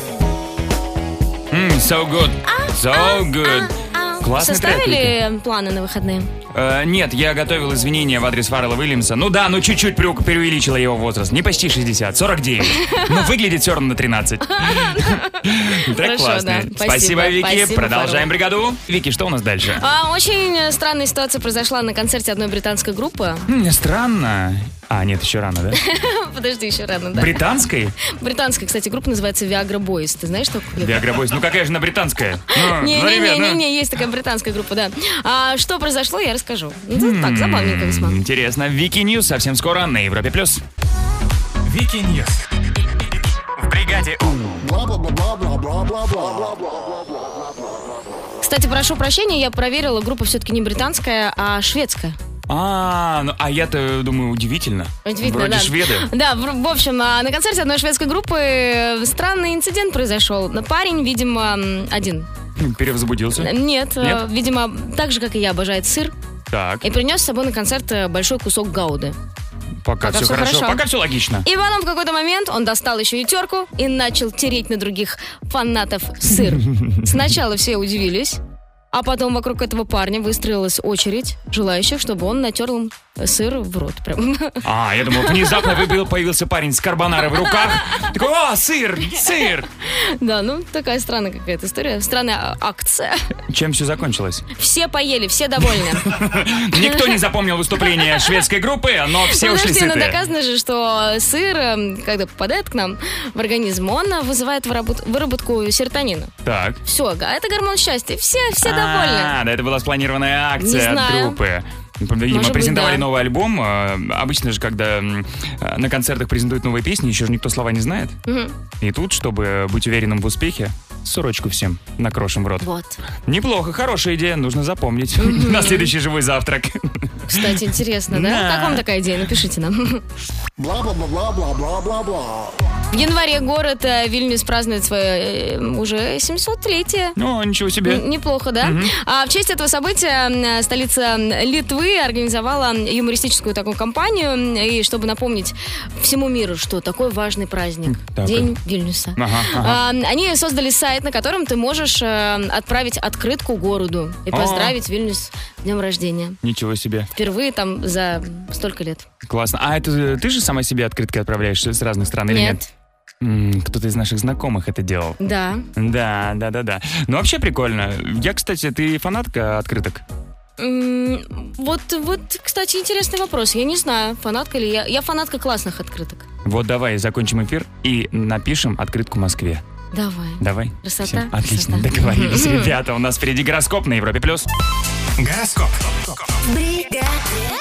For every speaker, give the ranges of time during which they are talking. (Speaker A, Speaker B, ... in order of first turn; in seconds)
Speaker A: 1.5-5.2, 6.5-19.8, 23.5-25.8, 27.1-27.9, 30.8-33.6, 36.9-40.6, 52.5-56.1, 62.6-64.2, 66.5-66.8, 69.8-71.5, 76.3-77.1, 84.6-89.7, 93.5-94.5, 96.0-100.2, 106.5-106.8, 108.6-118.2, 118.8-122.7, 123.3-128.8, 137.2-138.0, 138.6-138.9, 147.9-148.6, 149.2-149.8, 154.3-154.8, 156.4-157.1, 159.3-162.6, 163.2-165.2, 165.8-170.0, 176.4-179.6, 180.4-184.5
Speaker B: 2.5-6.3, 12.7-13.3, 14.5-15.4, 16.0-18.3, 19.8-23.5, 25.8-27.4, 28.0-31.0, 32.5-38.2, 48.4-52.2, 55.1-62.3, 63.4-66.1, 66.8-69.2, 70.0-70.8, 71.5-78.4, 78.9-84.6, 85.2-85.7, 87.4-88.1, 89.8-93.2, 94.6-96.2, 96.8-97.1, 97.8-98.3, 99.3-106.3, 106.9-109.4, 110.6-111.4, 112.3-113.0, 118.3-118.6, 122.6-123.0, 125.2-125.9, 127.3-130.0, 132.9-137.2, 137.9-156.4, 157.2-159.1, 162.3-162.6, 165.2-165.7, 170.6-176.2, 179.9-182.7
Speaker C: 41.6-42.5, 43.6-44.4, 185.2-186.4
Speaker D: 44.6-47.9, 130.6-132.5